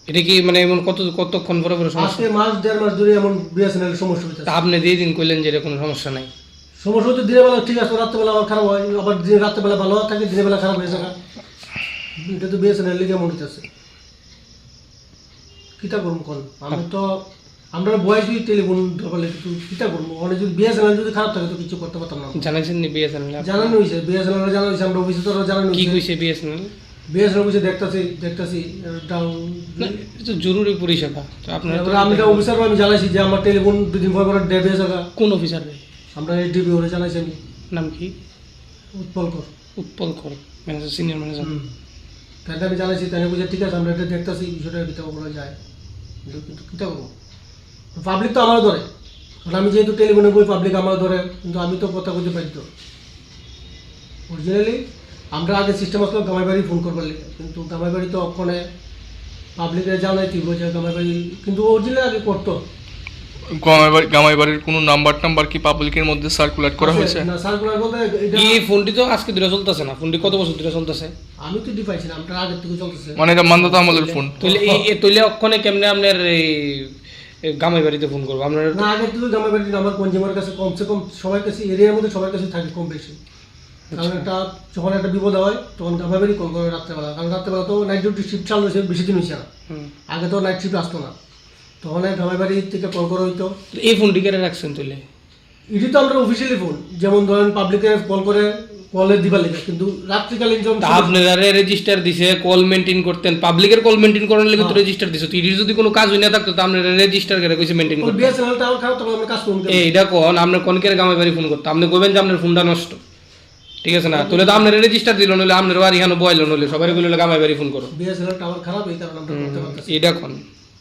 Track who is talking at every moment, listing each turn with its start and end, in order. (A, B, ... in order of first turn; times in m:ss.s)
0:00.1-0:02.2 A
0:02.0-0:04.5 B
0:04.4-0:06.3 A
0:06.8-0:11.2 B
0:12.2-0:13.6 B
0:15.8-0:22.4 B
0:22.4-0:23.8 A
0:23.4-0:26.0 B
0:25.7-0:26.7 A
0:27.1-0:30.0 B
0:29.8-0:32.5 A
0:31.7-0:35.1 B
0:35.2-0:35.8 A
0:36.1-0:37.4 B
0:37.7-0:38.1 A
0:38.9-0:39.5 B
0:39.8-0:41.5 A
0:41.4-0:41.7 B
0:42.4-0:45.6 B
0:46.2-0:47.1 B
0:48.0-0:48.8 B
0:49.4-0:52.6 B
0:54.3-0:58.6 B
0:59.6-1:02.6 B
1:03.5-1:07.3 C
1:06.8-1:08.6 B
1:08.3-1:11.1 A
1:11.4-1:14.8 B
1:13.2-1:14.5 C
1:14.4-1:18.8 A
1:18.7-1:23.2 B
1:23.9-1:24.3 A
1:23.9-1:29.5 B
1:30.1-1:31.1 B
1:31.8-1:33.5 B
1:33.7-1:35.0 A
1:35.7-1:41.1 B
1:40.8-1:48.3 A
1:44.6-1:44.8 B
1:48.0-1:49.9 B
1:49.7-1:53.0 A
1:53.8-1:57.9 A
1:54.1-1:54.7 B
1:57.9-2:00.0 B
1:59.3-2:00.4 A